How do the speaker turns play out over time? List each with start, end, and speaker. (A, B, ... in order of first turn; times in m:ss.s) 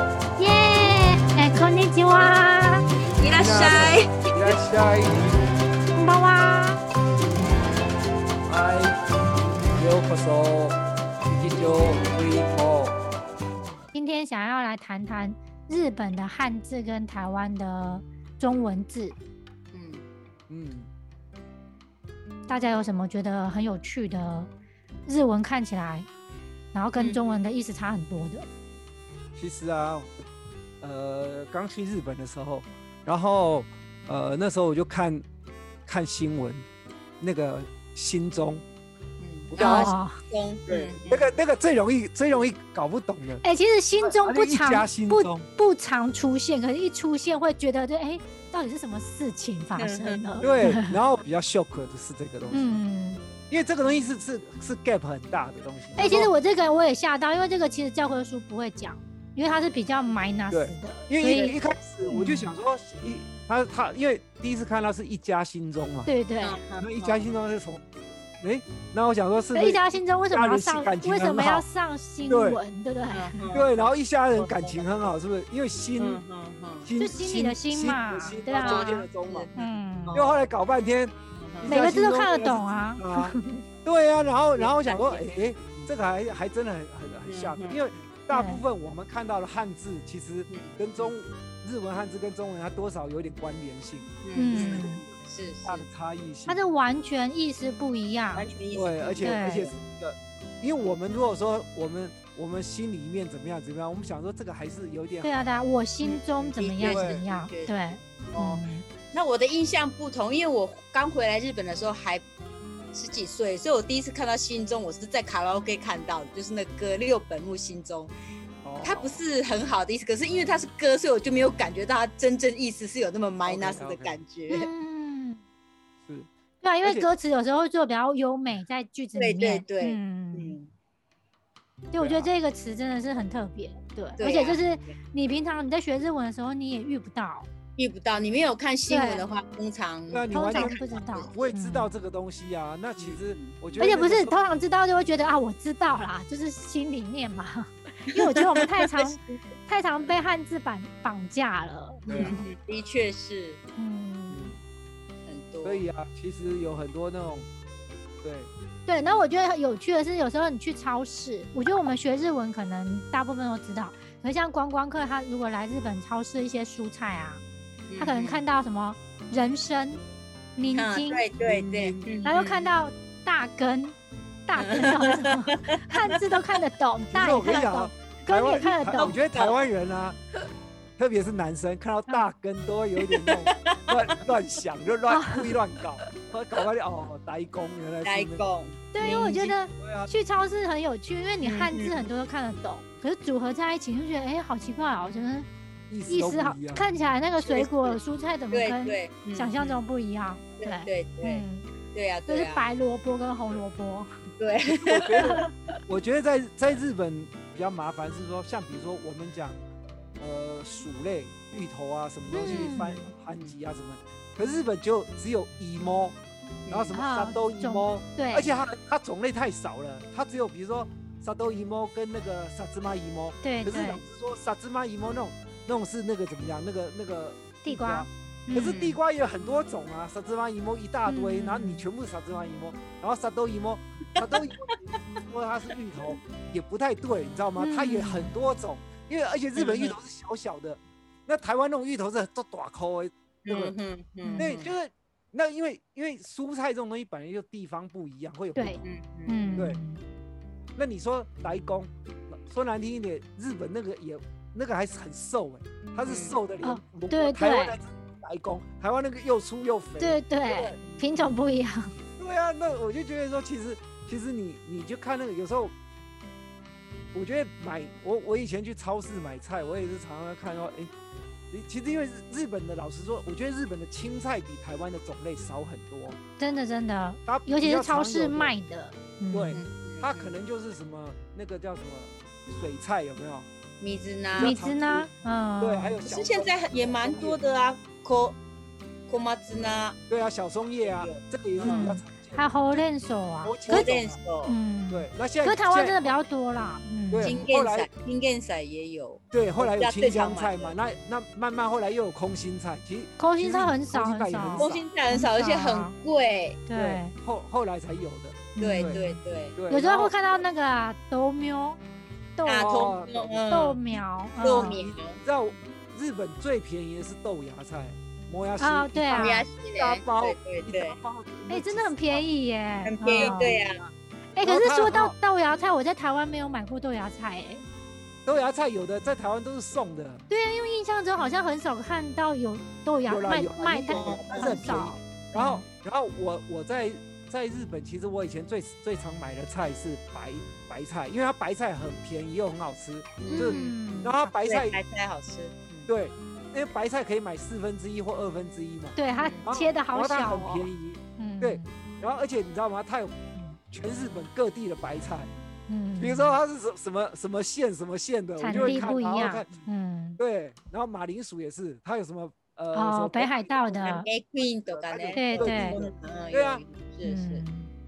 0:00.4-0:02.8 A
0:03.2-0:04.6 B
0:03.4-0:05.4 C
0:06.0-0:06.8 A
0:08.5-0:09.0 C
0:09.6-0:13.0 C
0:13.9-0:19.2 A
0:19.7-0:20.0 B
0:20.5-0:20.9 C
0:22.5-0:24.5 A
0:25.1-0:26.1 A
0:26.7-0:28.5 A
0:27.0-0:27.4 B
0:29.4-0:30.1 C
0:30.8-0:35.2 C
0:35.9-0:36.6 C
0:37.2-0:38.6 C
0:39.2-0:41.3 B
0:39.5-0:39.9 C
0:39.6-0:40.2 A
0:40.7-0:43.4 C
0:43.4-0:51.0 A
0:44.0-0:45.5 C
0:49.8-0:50.5 B
0:50.4-0:52.8 C
0:52.5-0:53.2 A
0:53.5-0:56.3 C
0:56.0-1:01.6 A
1:00.5-1:06.1 C
1:02.1-1:02.5 A
1:06.1-1:06.6 A
1:06.4-1:07.3 B
1:06.8-1:09.8 C
1:09.5-1:13.4 A
1:10.3-1:11.7 C
1:12.3-1:12.6 C
1:13.1-1:13.7 B
1:13.5-1:16.2 C
1:14.4-1:15.0 B
1:16.0-1:16.9 B
1:16.8-1:19.5 C
1:17.0-1:19.0 A
1:18.6-1:20.4 B
1:19.6-1:20.2 A
1:20.1-1:34.9 C
1:21.3-1:21.8 B
1:21.6-1:23.6 A
1:24.6-1:25.9 B
1:27.3-1:28.1 B
1:28.3-1:28.6 A
1:30.5-1:31.1 B
1:34.2-1:35.8 B
1:34.4-1:35.0 A
1:35.7-1:36.6 C
1:36.5-1:38.5 A
1:38.4-1:39.7 B
1:38.7-1:45.5 C
1:39.2-1:39.7 A
1:45.2-1:48.9 A
1:46.0-1:52.3 B
1:46.8-1:47.2 C
1:52.9-1:58.1 B
1:58.6-1:59.2 C
1:58.8-2:04.7 B
2:03.4-2:04.2 C
2:04.5-2:05.4 A
2:06.6-2:10.6 A
2:06.8-2:07.1 C
2:09.2-2:10.7 B
2:11.9-2:17.5 A
2:12.0-2:12.3 C
2:14.2-2:14.9 B
2:17.8-2:21.4 B
2:18.9-2:19.2 A
2:20.1-2:24.4 C
2:20.3-2:21.9 A
2:23.0-2:23.6 B
2:23.8-2:32.4 A
2:28.1-2:29.4 B
2:32.1-2:32.5 C
2:32.1-2:33.6 B
2:33.8-2:34.5 A
2:34.3-2:34.6 C
2:35.3-2:35.8 B
2:35.6-2:37.5 C
2:38.2-2:38.5 C
2:38.9-2:47.4 A
2:47.9-2:48.4 B
2:48.0-2:50.0 A
2:50.6-2:51.3 A
2:50.7-2:52.7 B
2:51.4-2:52.2 C
2:52.2-2:54.0 A
2:54.5-2:59.2 A
2:54.6-2:56.2 B
2:57.1-3:00.2 C
2:58.7-2:59.6 B
3:01.0-3:08.4 C
3:03.1-3:04.2 B
3:05.1-3:05.5 A
3:08.0-3:09.6 B
3:08.9-3:15.5 A
3:09.8-3:10.1 C
3:11.4-3:12.1 B
3:15.9-3:16.8 C
3:16.1-3:21.7 A
3:17.4-3:18.0 B
3:18.5-3:19.8 B
3:20.6-3:22.7 B
3:22.3-3:24.1 A
3:24.4-3:25.4 B
3:24.8-3:29.6 C
3:25.0-3:25.5 A
3:30.2-3:36.2 C
3:32.3-3:33.1 A
3:32.5-3:33.6 B
3:36.7-3:36.9 B
3:36.7-4:03.8 C
3:36.9-3:38.7 A
3:43.4-3:44.0 A
3:47.6-3:48.9 A
3:51.1-3:51.9 A
3:54.3-3:55.0 B
3:57.6-3:58.3 A
3:59.6-4:00.0 B
4:03.4-4:04.7 B
4:04.2-4:04.5 A
4:04.4-4:08.8 C
4:08.6-4:10.0 A
4:08.8-4:09.7 B
4:10.8-4:20.2 C
4:16.1-4:16.4 B
4:16.6-4:17.8 A
4:20.0-4:21.9 A
4:20.5-4:21.0 B
4:22.2-4:25.7 C
4:27.1-4:30.9 C
4:31.5-4:36.2 C
4:36.4-4:39.6 A
4:37.3-4:38.5 C
4:39.3-4:43.5 C
4:39.5-4:40.4 B
4:43.8-4:44.6 B
4:44.3-4:45.1 C
4:44.4-4:46.0 A
4:45.6-4:47.4 C
4:46.1-4:48.4 B
4:49.1-4:50.0 B
4:50.1-4:52.4 C
4:50.8-4:51.9 B
4:51.6-4:53.9 A
4:53.4-4:54.2 C
4:53.7-4:54.6 B
4:54.4-4:57.4 A
4:54.9-4:56.1 C
4:57.1-4:57.9 C
4:57.2-5:00.7 B
4:59.3-5:04.8 C
5:03.2-5:05.9 A
5:04.6-5:06.6 B
5:06.7-5:07.2 A
5:06.8-5:09.0 C
5:08.6-5:11.8 A
5:08.6-5:09.6 B
5:09.6-5:10.4 C
5:12.4-5:12.8 A
5:12.4-5:13.8 B
5:12.6-5:13.4 C
5:13.5-5:14.8 A
5:14.4-5:15.2 B
5:14.5-5:22.3 C
5:18.6-5:19.5 A
5:19.1-5:21.0 B
5:21.5-5:23.6 A
5:22.9-5:23.8 B
5:23.0-5:23.9 C
5:24.4-5:27.6 A
5:24.4-5:25.2 C
5:28.2-5:30.2 C
5:30.3-5:35.6 A
5:33.1-5:44.8 C
5:33.9-5:34.8 B
5:43.2-5:43.8 B
5:43.3-5:44.2 A
5:44.4-5:45.9 B
5:45.9-5:53.1 C
5:49.0-5:51.7 A
5:49.2-5:49.6 B
5:53.7-5:55.3 C
5:55.7-5:56.4 A
5:56.0-5:59.5 C
5:58.4-6:00.2 A
5:58.5-5:58.8 B
6:00.2-6:04.0 C
6:02.7-6:04.1 A
6:03.8-6:07.4 B
6:04.7-6:06.6 C
6:05.2-6:05.8 A
6:07.0-6:07.7 A